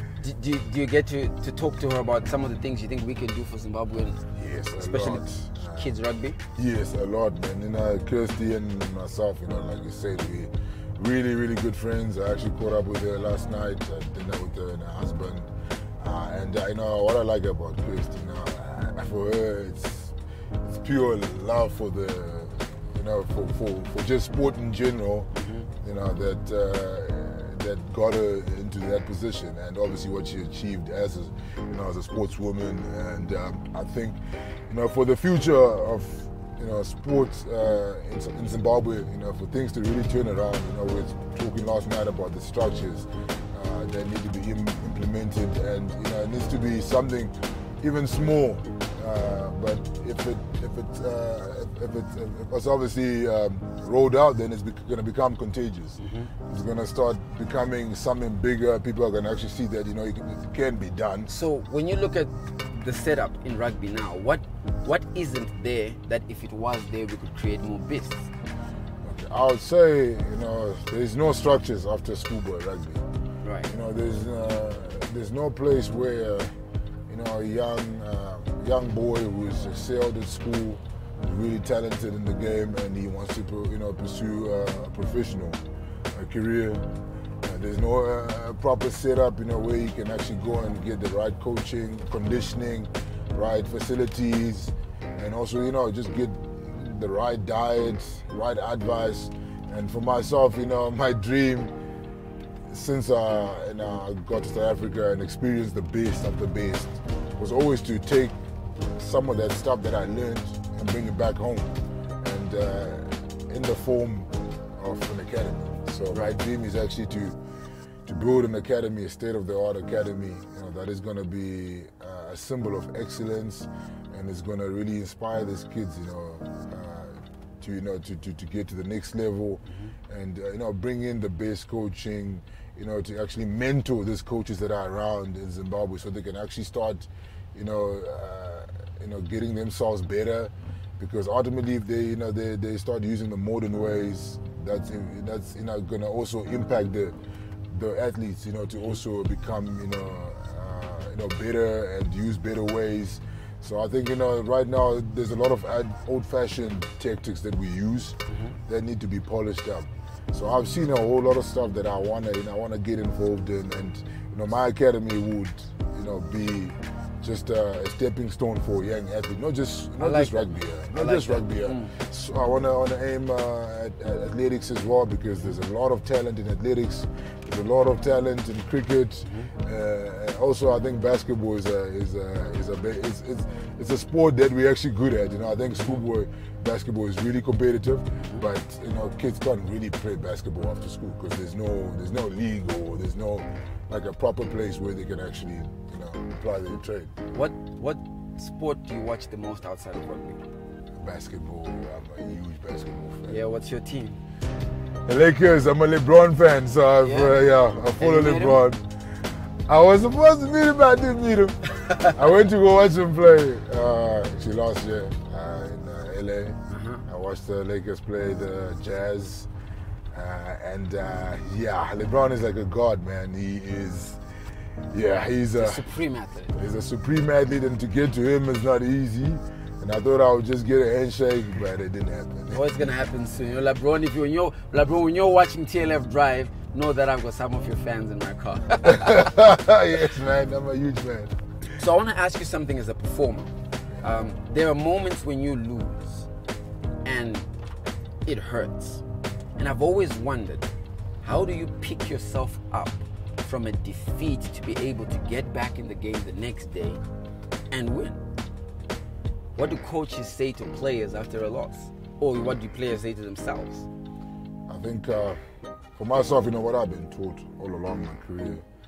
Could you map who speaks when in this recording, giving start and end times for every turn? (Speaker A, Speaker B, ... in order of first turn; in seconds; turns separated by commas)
Speaker A: 0.2-4.2, Speaker B: 4.3-6.0, Speaker A: 4.7-6.4, Speaker B: 6.5-61.3, Speaker A: 25.3-25.7, Speaker A: 56.0-56.3, Speaker A: 61.3-68.3, Speaker B: 69.0-73.0, Speaker A: 73.4-73.7, Speaker B: 73.7-76.5, Speaker B: 77.1-85.6, Speaker B: 86.1-86.9, Speaker B: 87.4-101.7, Speaker B: 102.7-108.3, Speaker B: 109.0-117.4, Speaker A: 116.1-116.4, Speaker B: 118.0-147.2, Speaker A: 129.7-129.9, Speaker B: 147.7-197.1, Speaker A: 158.3-158.6, Speaker A: 170.0-171.9, Speaker A: 179.3-179.5, Speaker A: 188.2-188.4, Speaker A: 197.3-200.4, Speaker B: 201.0-203.4, Speaker A: 203.3-204.2, Speaker B: 205.1-208.8, Speaker A: 207.0-207.3, Speaker A: 207.9-208.6, Speaker B: 209.7-219.5, Speaker A: 216.7-217.0, Speaker B: 220.1-224.2, Speaker B: 224.9-225.8, Speaker A: 225.6-226.6, Speaker B: 226.5-232.9, Speaker A: 232.5-239.3, Speaker B: 238.8-241.3, Speaker A: 241.7-246.3, Speaker A: 247.0-247.5, Speaker A: 248.2-249.0, Speaker A: 249.6-250.7, Speaker A: 251.2-257.0, Speaker A: 257.7-258.2, Speaker A: 259.6-263.9, Speaker B: 264.7-265.4, Speaker B: 265.9-268.6